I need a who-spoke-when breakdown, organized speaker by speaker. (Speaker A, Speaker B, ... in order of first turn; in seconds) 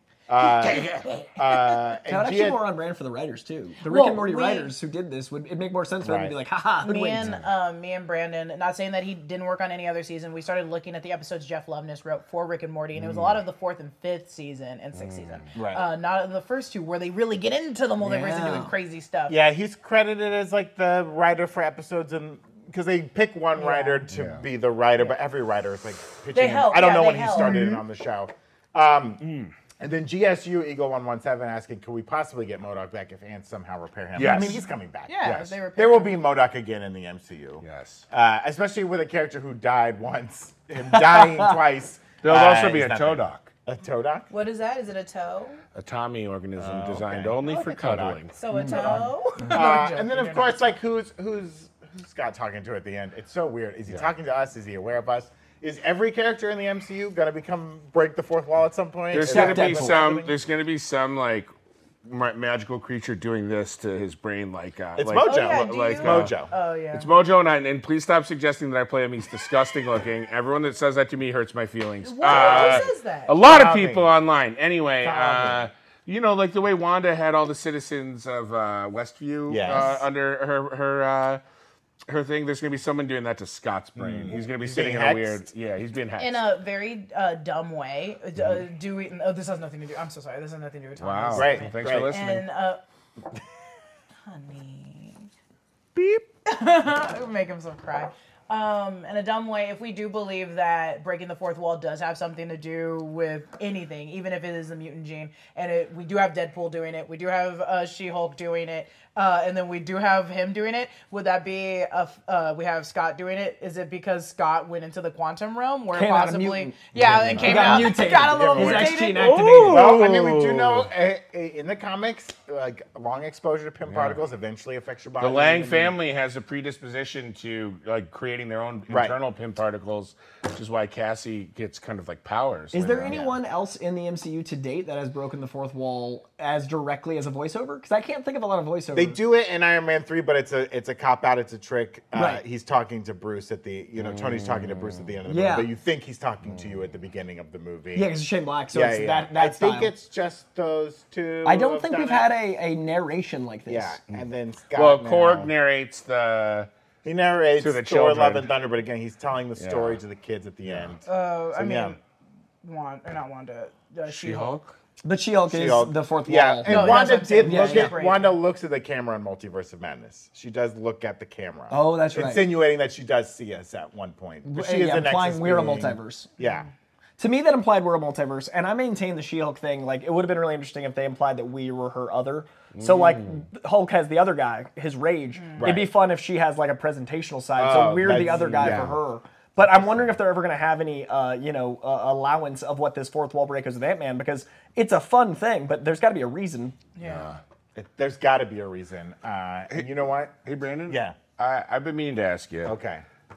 Speaker A: 0.3-2.6, 6.0-6.3, 13.1-13.3, 15.6-15.9, 19.3-29.2, 29.8-44.3, 46.6-60.4, 65.0-66.5, 72.2-72.9, 73.4-74.1, 75.0-75.7, 79.5-80.0, 84.0-85.4, 91.3-92.1, 117.0-119.0, 119.7-126.0, 128.9-129.1, 133.1-133.3, 138.9-148.1, 148.7-152.3, 153.7-155.5, 157.1-162.0, 165.5-176.7, 185.6-185.9, 187.6-189.0, 197.8-200.3, 200.9-201.2, 202.6-203.0
Speaker B: 0.4-1.8, 3.8-4.7, 6.8-19.4, 23.6-24.1, 26.3-27.8, 35.1-36.1, 44.3-45.6, 48.4-50.7, 65.2-67.1, 72.0-73.3, 86.2-92.8, 94.2-95.3, 96.5-119.4, 161.1-162.0, 162.6-164.6, 166.7-168.3, 185.3-185.8, 196.9-197.3
Speaker C: 2.1-7.3, 18.0-18.7, 41.1-41.5, 48.5-49.0, 59.1-60.0, 115.9-119.9, 132.7-139.2, 142.1-142.4, 145.3-145.7, 147.9-149.9, 151.4-154.0, 165.0-168.0, 171.7-172.5, 174.4-176.3, 177.2-196.8
Speaker D: 15.0-15.4, 24.1-24.4, 29.2-29.5, 34.1-34.6, 37.6-38.0, 42.2-43.5, 45.8-48.3, 59.1-61.5, 62.0-66.3, 66.9-81.4, 82.1-86.4, 91.0-92.5, 96.0-96.2, 117.0-117.8, 118.6-120.9, 123.8-124.2, 125.2-133.2, 144.0-145.1, 154.1-156.7, 157.6-158.5, 159.6-160.0, 160.6-160.9, 164.1-164.8, 182.8-183.4, 188.3-188.9, 197.0-197.4, 200.4-202.8